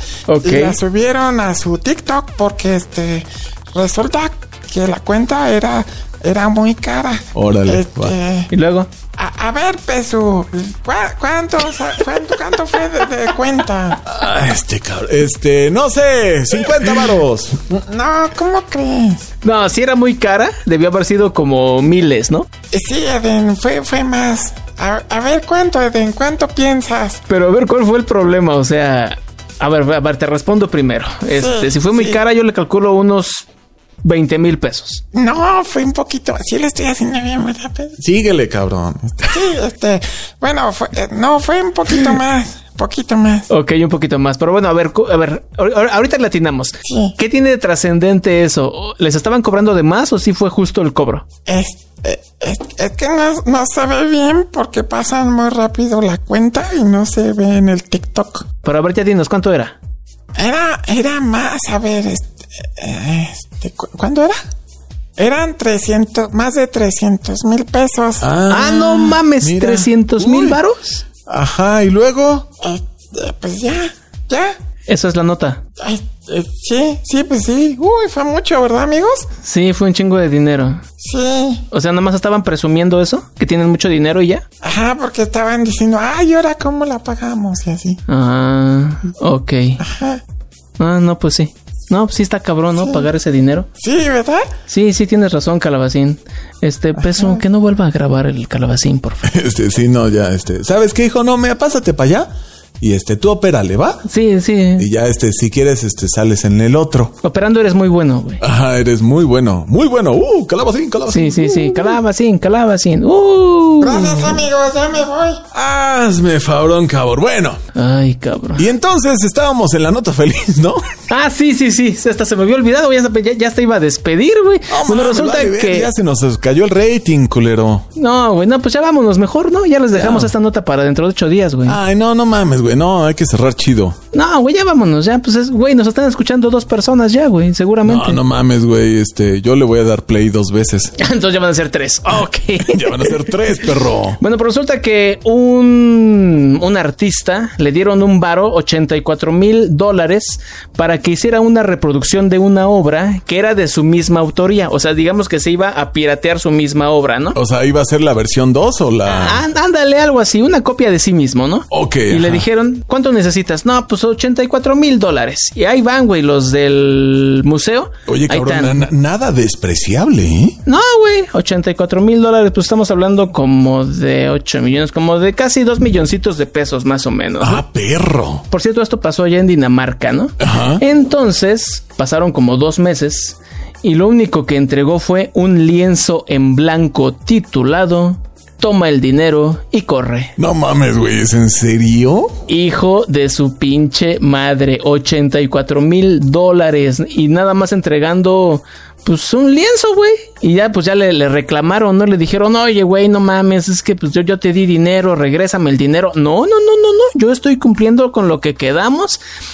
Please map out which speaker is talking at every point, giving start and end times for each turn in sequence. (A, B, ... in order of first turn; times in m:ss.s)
0:00.3-0:00.8 A
0:00.4-0:08.5 B
0:07.4-0:08.2 C
0:08.5-0:08.9 A
0:09.2-0:14.0 B
0:14.0-0:17.7 C
0:17.7-0:19.3 B
0:19.4-0:22.5 A
0:22.7-0:27.2 B
0:27.3-0:33.4 A
0:31.3-0:32.2 B
0:34.0-0:35.0 A
0:35.1-0:38.0 B
0:38.0-0:39.4 C
0:39.2-0:43.5 B
0:43.5-0:51.3 A
0:46.8-0:47.2 B
0:51.5-0:58.5 B
0:58.6-0:59.8 A
1:00.4-1:04.4 B
1:05.2-1:08.3 B
1:08.2-1:10.6 C
1:08.5-1:11.0 A
1:11.3-1:12.5 C
1:12.6-1:14.6 B
1:14.9-1:15.6 A
1:15.8-1:19.3 B
1:19.4-1:20.8 A
1:21.0-1:21.6 B
1:21.7-1:24.4 A
1:24.6-1:28.0 B
1:28.1-1:29.8 A
1:29.8-1:30.2 B
1:30.8-1:33.7 A
1:32.8-1:33.1 B
1:33.8-1:34.5 B
1:34.7-1:39.3 A
1:37.0-1:37.4 B
1:39.2-1:44.0 C
1:44.1-1:44.9 A
1:44.8-1:47.2 C
1:47.2-1:48.4 A
1:48.4-1:52.0 C
1:51.1-1:54.4 A
1:53.8-1:55.4 B
1:55.5-1:57.6 C
1:57.8-1:58.7 A
1:58.6-2:00.9 C
2:01.1-2:05.9 A
2:04.7-2:07.9 C
2:08.0-2:11.8 A
2:09.9-2:10.3 C
2:11.6-2:14.0 C
2:14.1-2:18.2 A
2:17.8-2:21.0 C
2:21.0-2:23.4 A
2:22.6-2:24.2 C
2:24.2-2:37.4 A
2:37.3-2:39.4 C
2:39.1-2:48.8 A
2:41.7-2:42.4 C
2:48.1-2:50.6 C
2:50.7-2:57.6 A
2:57.4-2:58.4 C
2:58.5-3:10.4 A
3:00.4-3:00.8 C
3:10.4-3:12.4 C
3:12.5-3:29.2 A